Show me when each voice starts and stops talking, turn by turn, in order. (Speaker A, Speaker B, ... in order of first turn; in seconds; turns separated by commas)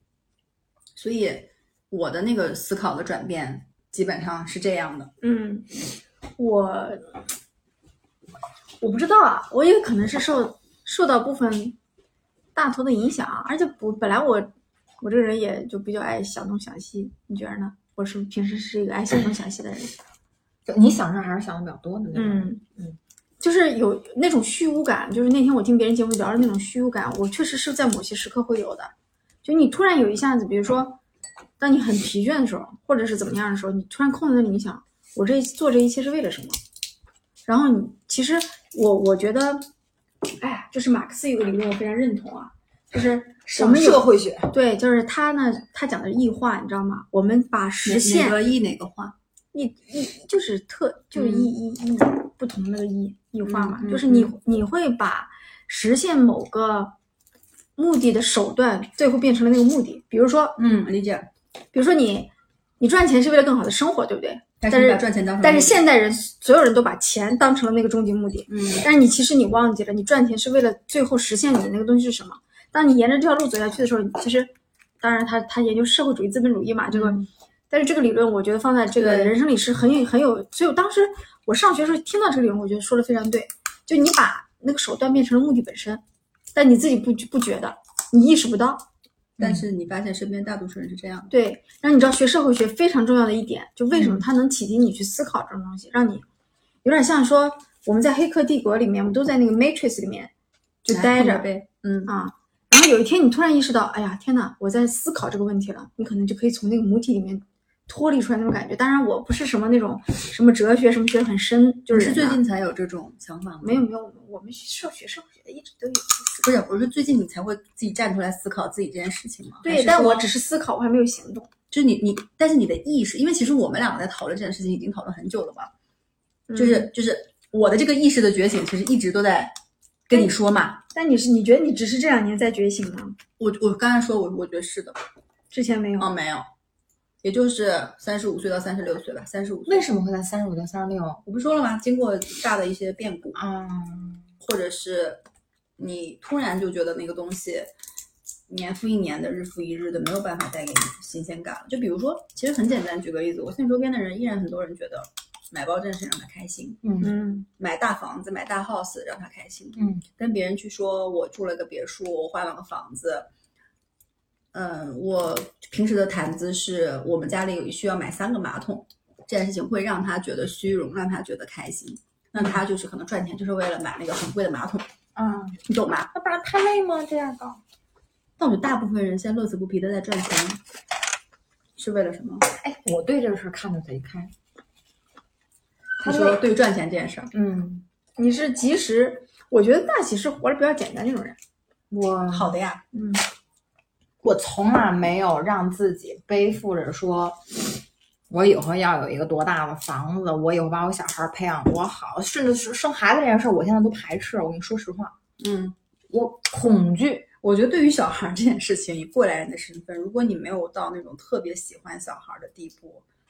Speaker A: 0.9-5.1, Speaker B: 5.2-5.7, Speaker B: 6.4-7.2, Speaker B: 8.8-11.8, Speaker B: 12.6-20.0, Speaker C: 20.7-23.0, Speaker B: 22.1-22.6, Speaker B: 23.4-28.9, Speaker B: 29.4-31.0, Speaker B: 31.6-36.6, Speaker B: 37.5-39.7, Speaker B: 40.4-48.4, Speaker C: 43.5-44.5, Speaker A: 47.9-49.1, Speaker B: 49.5-56.9, Speaker A: 51.1-51.5, Speaker A: 53.5-54.4, Speaker B: 57.8-60.6, Speaker A: 60.6-61.3, Speaker B: 61.7-86.0, Speaker A: 64.6-65.8, Speaker A: 68.5-68.9, Speaker C: 77.0-77.3, Speaker A: 79.0-79.3, Speaker B: 86.5-88.9, Speaker C: 89.4-89.7, Speaker A: 89.4-91.3, Speaker B: 91.3-96.2, Speaker B: 96.8-100.3, Speaker B: 100.8-101.5, Speaker A: 100.9-102.1, Speaker B: 102.1-112.4, Speaker A: 111.9-113.8, Speaker B: 113.6-116.5, Speaker A: 116.4-120.3, Speaker B: 119.6-121.5, Speaker A: 121.7-125.7, Speaker B: 126.5-126.9, Speaker A: 126.5-129.5, Speaker A: 130.1-130.8, Speaker B: 130.9-133.2, Speaker A: 133.4-135.0, Speaker B: 135.5-136.1, Speaker A: 136.0-136.5, Speaker A: 137.2-139.9, Speaker C: 139.7-141.2, Speaker A: 141.2-143.4, Speaker C: 143.3-144.3, Speaker A: 144.4-145.2, Speaker A: 145.8-147.7, Speaker A: 148.5-156.9, Speaker C: 156.8-157.1, Speaker B: 157.0-157.5, Speaker A: 157.6-163.3, Speaker C: 159.8-160.0, Speaker A: 164.5-174.9, Speaker C: 172.4-172.6, Speaker C: 175.2-175.6, Speaker A: 175.7-176.1, Speaker C: 176.1-177.6, Speaker A: 178.4-180.6, Speaker A: 181.8-182.5, Speaker C: 182.5-184.3, Speaker C: 186.0-186.4, Speaker A: 186.0-187.3, Speaker C: 187.3-187.8, Speaker B: 188.2-191.4, Speaker C: 191.9-192.6, Speaker A: 192.3-192.8, Speaker B: 192.9-193.3, Speaker C: 194.2-197.7, Speaker C: 198.3-205.2, Speaker A: 205.4-205.8, Speaker C: 206.1-207.3, Speaker A: 207.4-213.0